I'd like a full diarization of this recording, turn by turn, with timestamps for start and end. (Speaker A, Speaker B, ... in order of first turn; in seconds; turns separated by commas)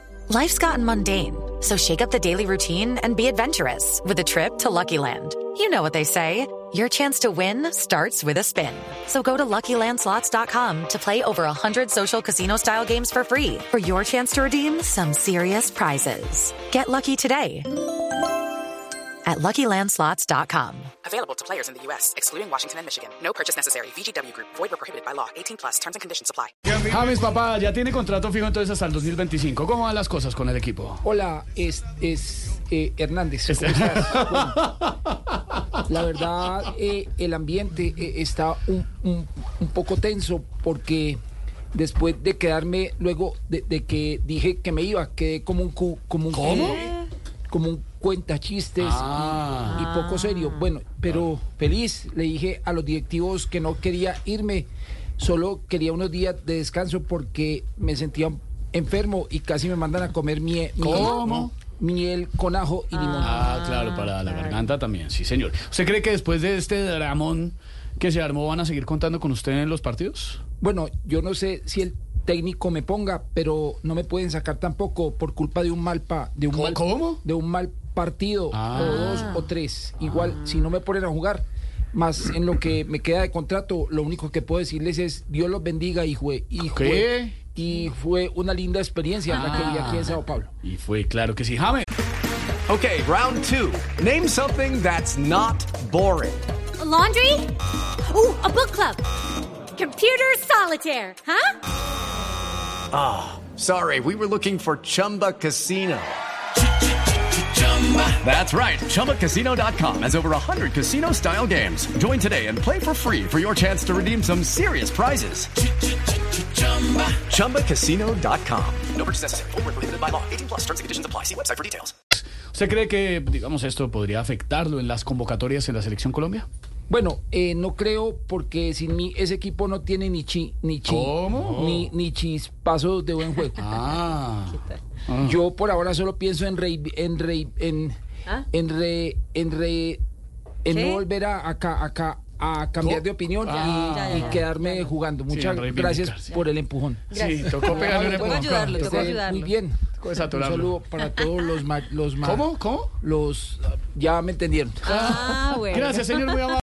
Speaker A: 0.3-17.7, Speaker A: 19.2-20.9, Speaker B: 21.0-26.5, Speaker C: 26.6-31.0, Speaker D: 31.0-34.6, Speaker C: 33.5-34.9, Speaker D: 35.9-41.2, Speaker D: 41.7-46.9, Speaker C: 46.3-46.8, Speaker D: 47.5-54.7, Speaker C: 48.8-49.8, Speaker D: 55.2-63.6, Speaker C: 60.8-61.5, Speaker C: 63.2-70.4, Speaker D: 70.6-90.5, Speaker C: 76.5-77.2, Speaker C: 78.5-79.4, Speaker C: 80.0-80.3, Speaker C: 86.7-87.4, Speaker C: 89.3-91.9, Speaker E: 92.7-96.4, Speaker F: 96.8-97.5, Speaker F: 98.1-99.0, Speaker F: 99.7-101.5, Speaker E: 102.9-106.2, Speaker E: 107.8-115.5, Speaker E: 116.9-121.9, Speaker C: 122.5-126.5, Speaker D: 126.9-133.7, Speaker C: 130.9-131.9, Speaker C: 133.6-135.4, Speaker D: 135.2-137.9, Speaker D: 138.5-140.0, Speaker D: 140.6-152.5, Speaker C: 142.8-144.5, Speaker A: 144.0-144.3, Speaker C: 145.3-146.3, Speaker C: 147.1-149.1, Speaker A: 147.6-149.5, Speaker C: 150.0-150.7, Speaker C: 152.2-152.9, Speaker D: 153.0-155.1, Speaker C: 154.8-156.6, Speaker A: 155.1-155.8